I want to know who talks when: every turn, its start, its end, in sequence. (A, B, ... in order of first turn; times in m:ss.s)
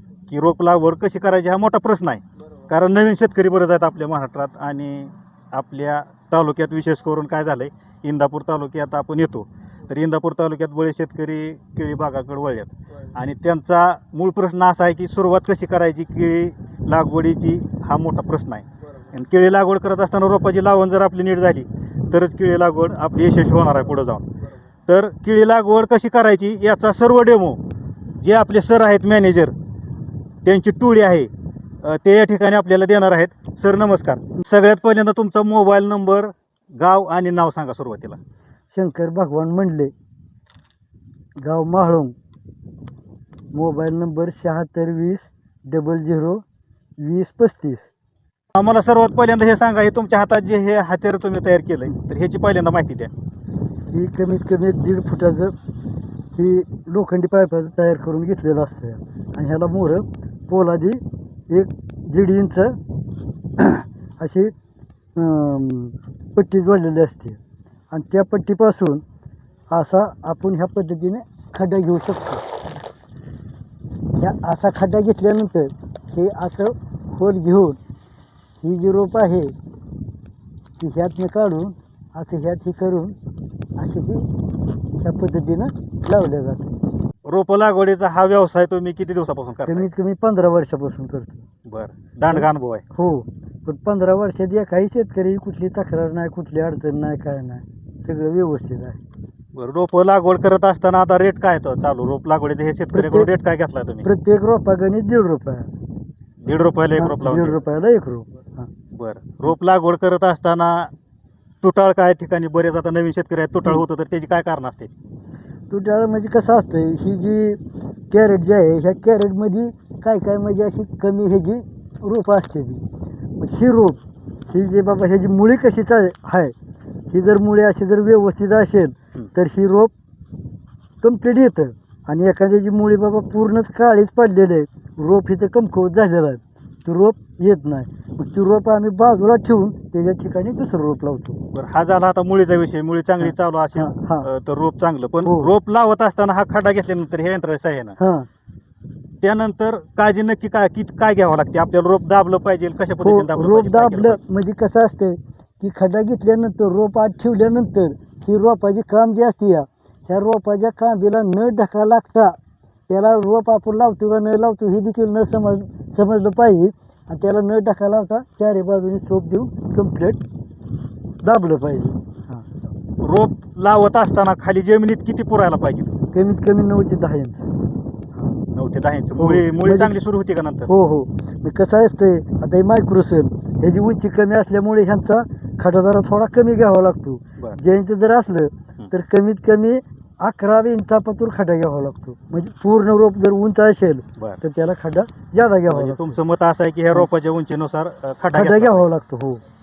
0:00.3-0:24.3 A
0:24.9-0:27.6 A
0:28.2-0:29.5 A
0:30.4-0:31.3 A
0:31.8-0:38.2 A
0:38.7-0:39.9 B
0:41.4-0:42.1 B
0:43.5-0:46.4 B
0:47.0-0:47.9 B
0:48.6-0:53.1 A
0:53.9-0:55.5 B
0:56.4-1:02.8 B
1:03.6-1:04.5 B
1:05.2-1:07.4 B
1:07.9-1:09.0 B
1:09.7-1:12.4 B
1:14.2-1:17.8 B
1:18.6-1:19.5 B
1:20.8-1:23.2 B
1:23.8-1:24.3 B
1:25.0-1:26.7 B
1:27.3-1:29.9 A
1:29.6-1:31.4 B
1:31.7-1:32.8 A
1:32.3-1:39.0 B
1:39.5-1:44.1 A
1:42.9-1:43.3 B
1:44.0-1:45.7 B
1:46.4-1:47.6 A
1:47.0-1:48.7 B
1:48.9-1:50.9 A
1:51.6-1:54.9 A
1:55.7-1:57.6 B
1:58.1-2:02.8 B
2:03.4-2:06.5 B
2:07.1-2:09.9 B
2:11.0-2:21.4 B
2:21.5-2:28.0 A
2:23.2-2:24.3 B
2:25.2-2:25.5 B
2:28.0-2:28.3 B
2:29.2-2:34.2 A
2:33.0-2:42.4 B
2:42.9-2:50.2 B
2:51.2-2:52.4 B
2:53.0-2:55.9 A
2:56.1-2:57.5 B
2:58.5-3:00.7 A
2:59.2-3:00.0 B
3:00.7-3:16.2 B
3:15.7-3:18.9 A
3:18.3-3:19.4 B